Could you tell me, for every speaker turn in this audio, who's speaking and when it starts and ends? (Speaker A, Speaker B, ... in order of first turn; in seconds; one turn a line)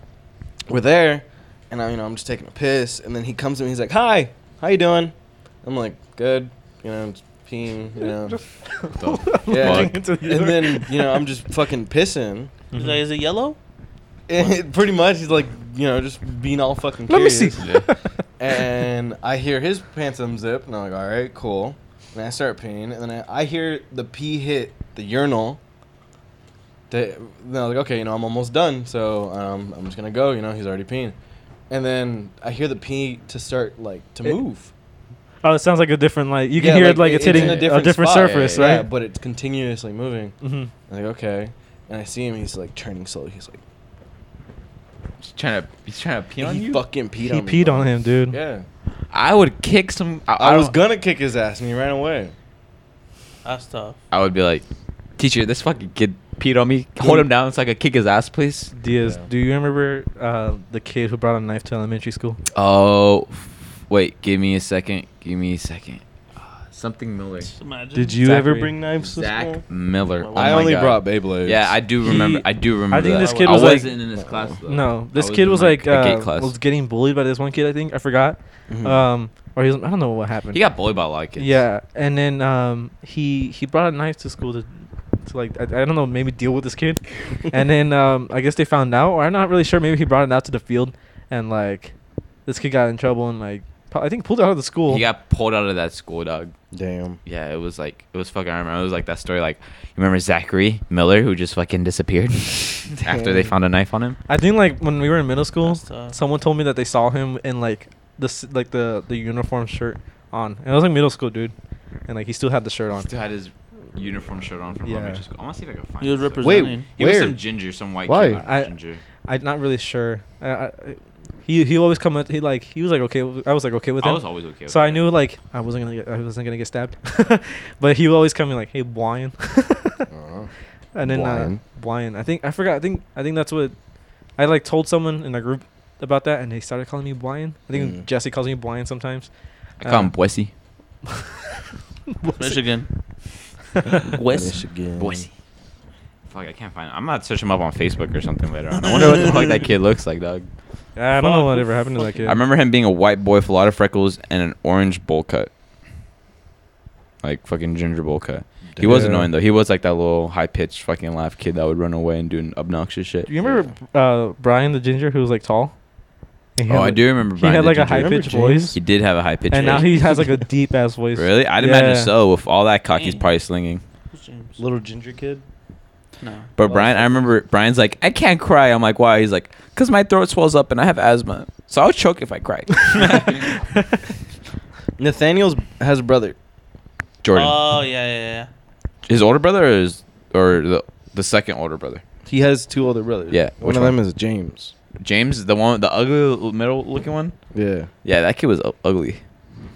Speaker A: 0.7-8.4
Speaker B: 8.7-11.2
Speaker C: 9.0-10.0
Speaker A: 9.5-12.5
Speaker B: 12.7-13.0
Speaker D: 12.7-13.6
Speaker A: 14.3-17.7
Speaker B: 17.1-18.0
Speaker C: 17.6-17.9
Speaker A: 18.4-25.6
Speaker A: 26.9-31.1
Speaker A: 31.7-34.7
Speaker B: 35.4-38.9
Speaker A: 36.5-40.4
Speaker C: 37.2-38.7
Speaker B: 40.4-40.7
Speaker A: 40.9-43.6
Speaker C: 45.2-46.8
Speaker A: 46.4-48.6
Speaker B: 47.2-48.4
Speaker C: 49.1-50.7
Speaker A: 50.4-52.3
Speaker D: 53.4-54.0
Speaker C: 54.1-54.6
Speaker C: 55.2-58.7
Speaker A: 57.0-57.2
Speaker B: 58.7-62.4
Speaker A: 59.0-59.2
Speaker C: 62.5-66.0
Speaker C: 66.7-67.5
Speaker D: 67.5-68.2
Speaker A: 67.9-69.6
Speaker B: 68.2-68.7
Speaker C: 69.0-76.5
Speaker D: 70.2-70.8
Speaker A: 70.3-71.8
Speaker B: 72.0-74.0
Speaker D: 73.0-73.8
Speaker A: 74.2-74.5
Speaker B: 74.7-80.6
Speaker A: 78.7-79.0
Speaker C: 80.5-81.6
Speaker B: 81.4-84.7
Speaker B: 85.2-91.9
Speaker B: 92.5-95.0
Speaker C: 94.9-96.5
Speaker A: 96.7-97.2
Speaker C: 97.2-104.2
Speaker A: 103.0-103.4
Speaker B: 104.3-111.5
Speaker D: 105.6-106.2
Speaker B: 112.1-113.1
Speaker C: 112.9-119.0
Speaker B: 114.8-115.2
Speaker D: 116.0-116.9
Speaker A: 116.4-117.4
Speaker A: 118.0-118.4
Speaker B: 118.4-118.7
Speaker B: 119.2-130.1
Speaker C: 124.0-125.1
Speaker A: 130.1-130.5
Speaker B: 130.9-133.7
Speaker A: 131.0-131.6
Speaker B: 134.4-139.3
Speaker A: 137.7-138.1
Speaker C: 139.8-140.5
Speaker B: 139.8-140.1
Speaker B: 142.1-142.6
Speaker D: 142.4-142.9
Speaker D: 144.1-144.6
Speaker A: 144.2-145.2
Speaker C: 145.0-145.3
Speaker C: 146.3-150.4
Speaker D: 148.8-149.6
Speaker B: 150.9-152.4
Speaker D: 151.1-152.4
Speaker C: 152.2-155.5
Speaker C: 157.2-163.3
Speaker A: 158.8-159.3
Speaker B: 158.9-159.2
Speaker B: 163.3-165.7
Speaker A: 163.4-163.7
Speaker B: 166.6-168.8
Speaker C: 166.7-170.1
Speaker A: 168.0-168.7
Speaker B: 169.5-172.1
Speaker C: 171.1-173.8
Speaker D: 172.9-173.3
Speaker D: 174.1-174.6
Speaker A: 174.6-175.4
Speaker D: 176.2-176.5
Speaker C: 176.6-183.4
Speaker A: 176.6-177.2
Speaker A: 185.0-186.3
Speaker C: 187.2-187.6
Speaker D: 187.3-188.5
Speaker C: 189.0-192.0
Speaker A: 192.2-194.7
Speaker C: 193.3-194.0
Speaker C: 195.0-197.3
Speaker A: 197.5-197.9
Speaker C: 198.0-199.2